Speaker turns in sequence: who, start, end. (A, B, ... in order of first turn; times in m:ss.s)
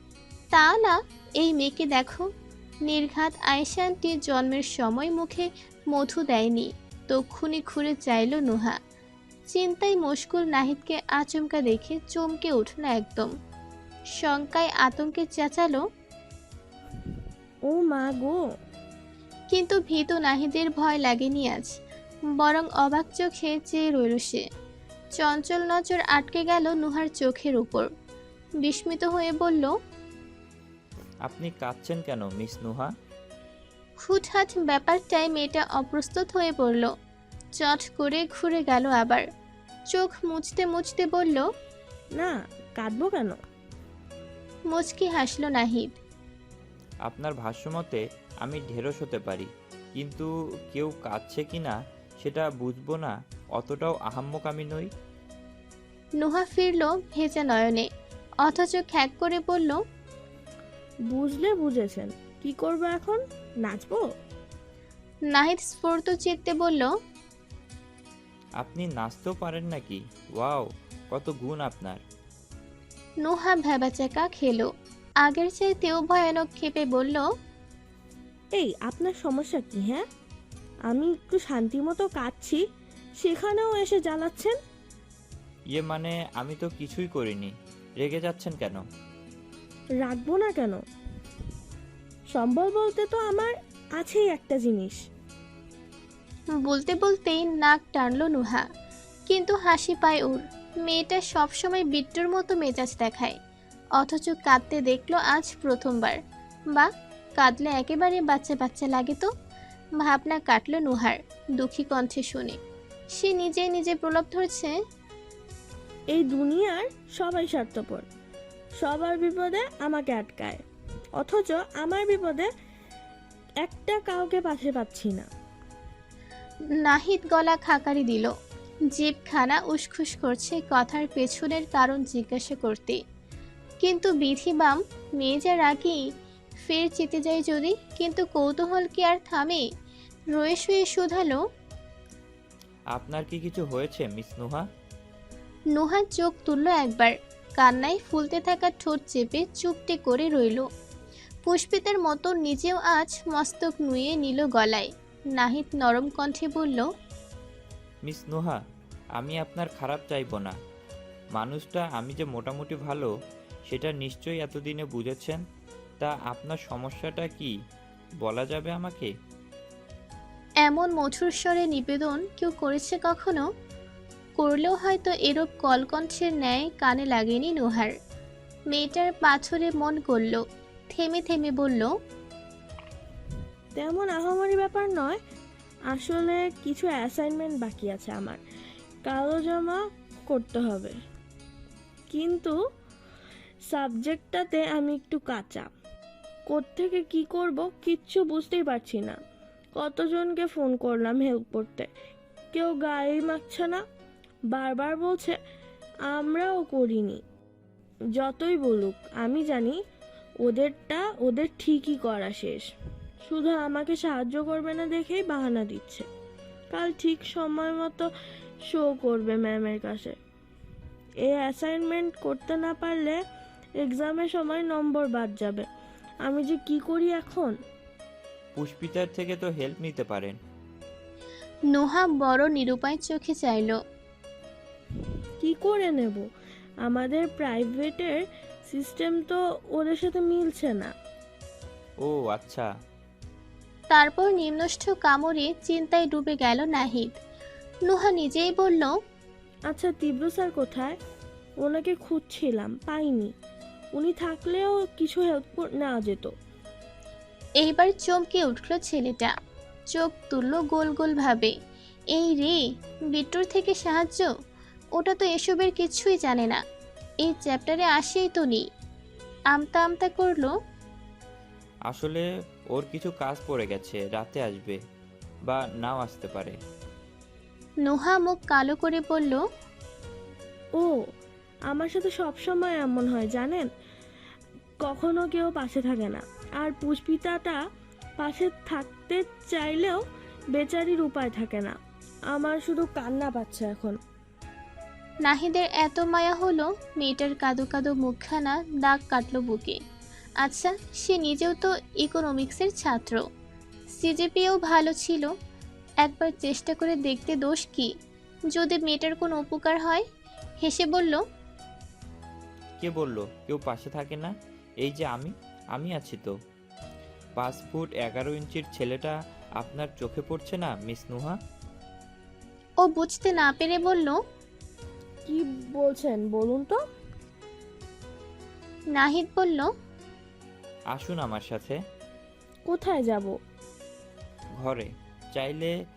0:00.5-0:02.2 A
0:02.9-0:08.8 A
0:09.5-0:13.3 A
0:14.2-0:15.8 A
0:17.1-0:18.4 B
0:19.5-0:21.8 A
0:22.4-0:24.4 A
0:25.2-0:27.9 A
0:28.6-0:29.7 A
0:31.3-0:32.9 C
0:34.0-0:36.9 A
0:37.6-0:39.2 A
0:39.9-0:41.4 A
0:42.2-0:43.4 B
0:44.7-0:45.9 A
0:47.1-0:54.9 C
0:56.2-0:57.9 A
0:58.4-0:59.8 A
1:01.1-1:04.1 B
1:05.3-1:06.9 A
1:08.6-1:12.0 C
1:13.2-1:14.7 A
1:15.2-1:17.2 A
1:18.5-1:20.0 B
1:20.9-1:22.6 B
1:23.2-1:24.6 B
1:25.7-1:28.8 C
1:30.0-1:30.8 B
1:32.3-1:35.1 B
1:36.6-1:38.6 A
1:39.3-1:43.4 A
1:44.0-1:46.2 A
1:46.7-1:49.3 A
1:50.0-1:52.6 A
1:53.1-1:54.8 A
1:56.1-1:58.1 B
1:58.8-2:02.5 B
2:03.6-2:05.3 B
2:06.8-2:08.3 A
2:08.9-2:13.0 A
2:13.8-2:16.0 A
2:16.7-2:19.6 A
2:20.4-2:21.4 A
2:23.0-2:24.6 C
2:25.7-2:30.7 A
2:31.4-2:36.9 A
2:38.1-2:38.6 C
2:39.2-2:40.5 C
2:41.4-2:43.1 C
2:43.7-2:45.4 C
2:46.0-2:47.5 C
2:48.2-2:49.1 C
2:50.6-2:53.4 A
2:54.4-2:57.9 A
2:58.7-3:01.9 A
3:03.8-3:05.2 B
3:05.9-3:08.4 B
3:09.0-3:11.0 B
3:12.1-3:12.6 B
3:13.7-3:15.7 B
3:16.5-3:19.2 B
3:19.8-3:21.9 B
3:22.5-3:23.8 B
3:24.5-3:25.4 B
3:26.1-3:27.2 B
3:28.1-3:29.8 B
3:30.4-3:32.7 B
3:33.2-3:36.1 B
3:36.7-3:38.1 B
3:38.6-3:40.2 B
3:41.2-3:43.2 B
3:43.8-3:45.7 B
3:46.2-3:47.6 B
3:48.6-3:50.4 C
3:51.7-3:53.8 A
3:55.0-3:56.3 B
3:56.8-4:00.9 B
4:02.0-4:02.7 C
4:03.9-4:07.2 A
4:07.9-4:08.9 A
4:09.7-4:11.0 B
4:11.6-4:13.3 B
4:13.9-4:16.3 B
4:17.6-4:19.3 A
4:19.9-4:21.5 A
4:22.2-4:22.6 A
4:23.1-4:24.3 A
4:25.0-4:26.6 A
4:27.2-4:28.6 A
4:29.5-4:30.5 A
4:31.9-4:34.8 C
4:35.5-4:36.6 C
4:37.8-4:39.4 A
4:41.7-4:43.7 B
4:44.8-4:47.6 B
4:48.2-4:54.0 B
4:55.3-4:59.8 A
5:00.4-5:03.2 A
5:04.0-5:05.3 A
5:06.0-5:07.9 A
5:08.5-5:10.0 A
5:10.6-5:11.2 A
5:12.8-5:16.3 C
5:17.4-5:21.4 C
5:22.8-5:24.2 A
5:25.3-5:26.8 B
5:29.0-5:29.7 A
5:30.9-5:31.8 C
5:32.6-5:33.4 B
5:34.6-5:35.7 C